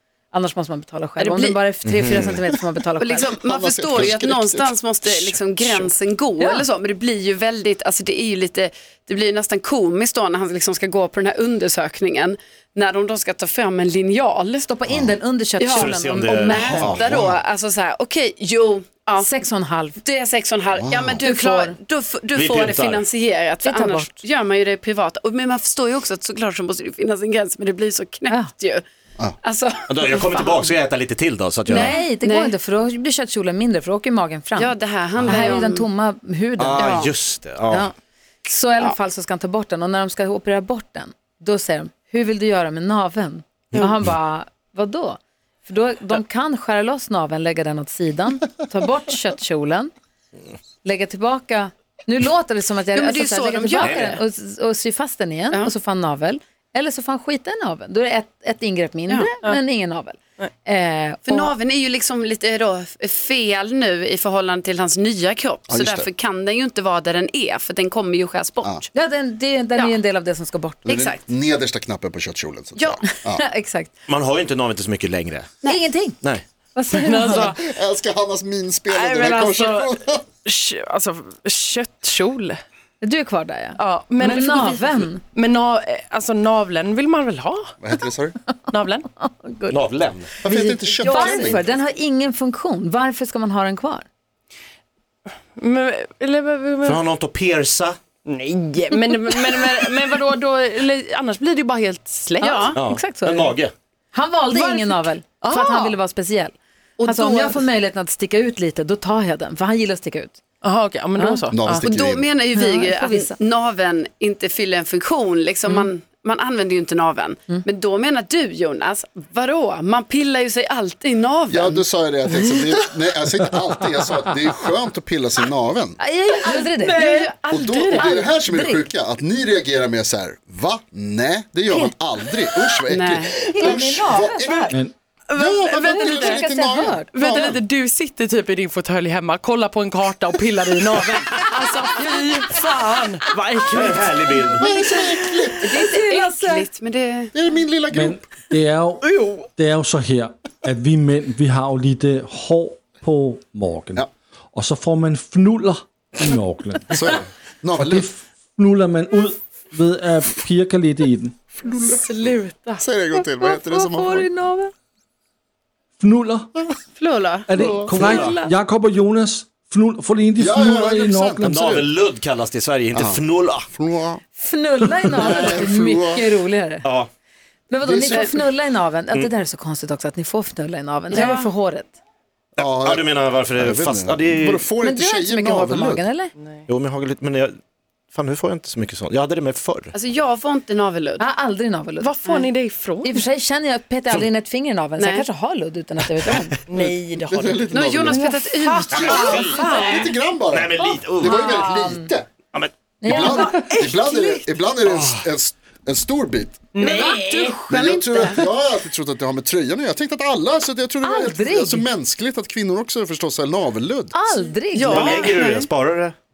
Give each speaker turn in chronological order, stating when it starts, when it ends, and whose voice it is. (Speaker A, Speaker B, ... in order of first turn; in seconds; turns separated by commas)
Speaker A: 0.3-3.3, Speaker B: 1.2-1.6, Speaker C: 1.8-2.3, Speaker B: 3.0-14.7, Speaker D: 3.4-5.7, Speaker A: 14.6-16.9, Speaker D: 14.9-15.2, Speaker B: 15.6-19.3, Speaker C: 15.7-17.0, Speaker D: 16.8-17.4, Speaker A: 19.2-20.0, Speaker B: 20.0-28.8, Speaker D: 20.8-21.2, Speaker A: 21.2-21.8, Speaker C: 22.3-23.0, Speaker A: 23.6-24.1, Speaker B: 29.4-30.6, Speaker C: 29.9-31.9, Speaker B: 31.7-32.5, Speaker A: 31.7-37.0, Speaker B: 34.5-35.9, Speaker C: 35.1-35.5, Speaker C: 36.6-37.9, Speaker B: 36.8-37.1, Speaker A: 38.5-49.9, Speaker A: 50.8-61.5, Speaker B: 52.9-54.2, Speaker C: 53.8-54.1, Speaker B: 61.2-68.9, Speaker D: 65.7-66.1, Speaker A: 68.9-70.9, Speaker D: 70.9-73.4, Speaker B: 70.9-71.2, Speaker B: 72.8-73.0, Speaker A: 73.1-73.9, Speaker C: 74.1-75.5, Speaker A: 75.7-76.2, Speaker A: 76.7-77.5, Speaker E: 76.9-77.6, Speaker D: 77.3-80.2, Speaker E: 78.9-79.9, Speaker E: 80.4-82.6, Speaker A: 83.0-85.2, Speaker E: 83.8-87.7, Speaker D: 87.8-88.3, Speaker E: 88.7-89.0, Speaker A: 89.2-89.8, Speaker C: 89.7-90.3, Speaker D: 90.4-91.7, Speaker A: 90.4-94.0, Speaker E: 90.9-91.7, Speaker E: 95.5-97.0, Speaker C: 96.8-98.0, Speaker E: 98.2-102.7, Speaker B: 102.4-102.8, Speaker A: 102.6-103.5, Speaker C: 102.7-103.7, Speaker A: 104.1-110.4, Speaker E: 104.5-106.0, Speaker B: 107.0-107.6, Speaker E: 110.6-111.8, Speaker A: 111.2-111.4, Speaker D: 111.5-112.3, Speaker B: 111.8-121.8, Speaker A: 112.5-113.3, Speaker D: 121.5-126.0, Speaker A: 126.0-127.2, Speaker E: 126.3-128.2, Speaker D: 127.5-134.7, Speaker A: 127.9-128.9, Speaker B: 132.9-133.3, Speaker A: 133.4-134.8, Speaker E: 135.3-136.4, Speaker D: 135.3-137.6, Speaker A: 135.8-137.3, Speaker E: 137.1-144.5, Speaker C: 143.7-144.7, Speaker D: 144.6-145.7, Speaker A: 145.6-146.7, Speaker B: 145.6-147.3, Speaker D: 147.3-148.2, Speaker F: 147.9-156.9, Speaker E: 149.0-149.5, Speaker D: 156.9-158.1, Speaker F: 157.7-161.3, Speaker D: 161.5-162.3, Speaker E: 161.7-162.5, Speaker B: 162.2-162.7, Speaker D: 162.8-164.3, Speaker A: 163.2-164.7, Speaker F: 166.0-166.6, Speaker B: 166.9-167.4, Speaker F: 167.5-171.5, Speaker D: 167.6-167.9, Speaker C: 167.8-168.3, Speaker A: 167.9-168.5, Speaker D: 170.4-171.9, Speaker C: 171.4-173.7, Speaker D: 172.9-174.2, Speaker A: 174.4-176.8, Speaker D: 175.1-176.3, Speaker C: 176.8-177.1, Speaker A: 177.7-181.9, Speaker D: 177.8-178.3, Speaker B: 181.1-181.5, Speaker D: 182.6-186.0, Speaker C: 182.6-184.6, Speaker A: 184.8-186.3, Speaker C: 186.7-187.6, Speaker C: 188.1-189.9, Speaker B: 189.9-191.2, Speaker A: 191.2-192.5, Speaker E: 192.0-193.2, Speaker A: 193.0-196.6, Speaker B: 195.0-195.2, Speaker E: 196.7-197.7, Speaker D: 197.3-198.2, Speaker B: 197.7-199.7, Speaker A: 198.1-199.6, Speaker E: 198.6-200.1, Speaker C: 198.9-199.6, Speaker D: 198.9-202.3, Speaker C: 200.5-201.5, Speaker A: 201.2-202.1, Speaker A: 203.0-203.6, Speaker D: 203.0-206.7, Speaker E: 203.4-204.4, Speaker C: 204.8-205.2, Speaker E: 206.7-207.7, Speaker A: 206.8-207.5, Speaker B: 206.8-208.4, Speaker D: 207.7-214.1, Speaker A: 211.0-211.9, Speaker A: 214.1-215.3, Speaker B: 214.7-215.6, Speaker C: 214.8-216.1